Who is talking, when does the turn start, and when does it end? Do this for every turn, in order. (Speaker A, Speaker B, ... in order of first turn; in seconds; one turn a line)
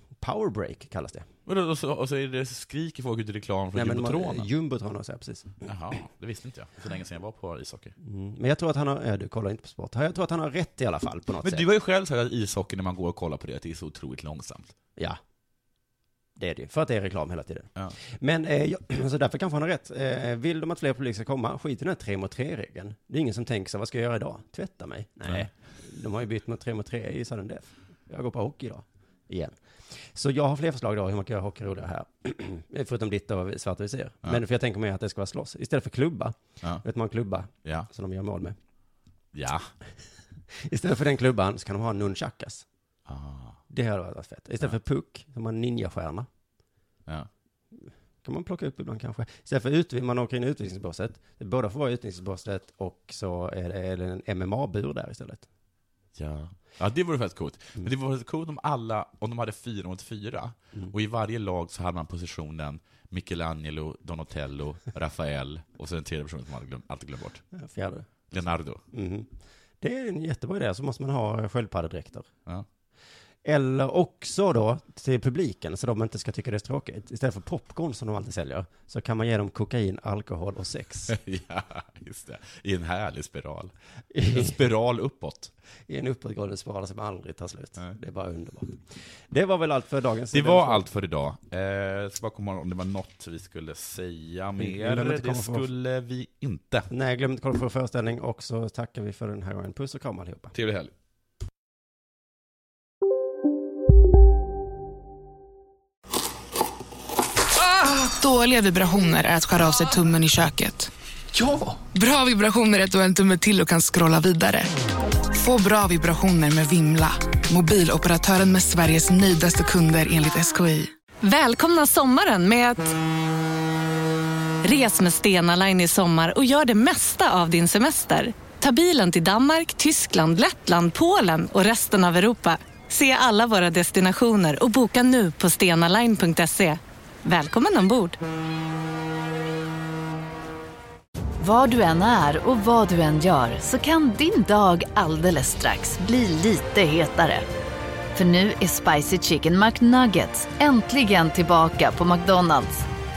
Speaker A: 0.2-1.3
Speaker B: 1.5-4.5
Speaker A: 3.8-5.5
Speaker B: 5.7-7.9
Speaker A: 8.0-11.7
Speaker B: 11.4-14.7
Speaker A: 16.4-38.6
Speaker B: 39.3-39.7
Speaker A: 40.6-42.7
Speaker B: 43.1-43.6
Speaker A: 43.7-46.3
Speaker A: 48.2-55.5
Speaker B: 56.2-67.4
Speaker A: 67.5-68.1
Speaker B: 68.3-68.8
Speaker A: 68.9-69.3
Speaker A: 69.8-72.3
Speaker A: 73.5-81.2
Speaker B: 81.1-85.5
Speaker A: 84.1-84.5
Speaker A: 85.9-90.9
Speaker B: 90.3-96.9
Speaker A: 94.6-95.7
Speaker A: 96.9-100.5
Speaker B: 100.5-100.9
Speaker C: 107.9-110.9
Speaker C: 111.9-114.7
Speaker C: 115.3-120.9
Speaker D: 121.2-122.9
Speaker D: 124.6-138.2
Speaker E: 141.4-147.4
Speaker E: 148.2-152.9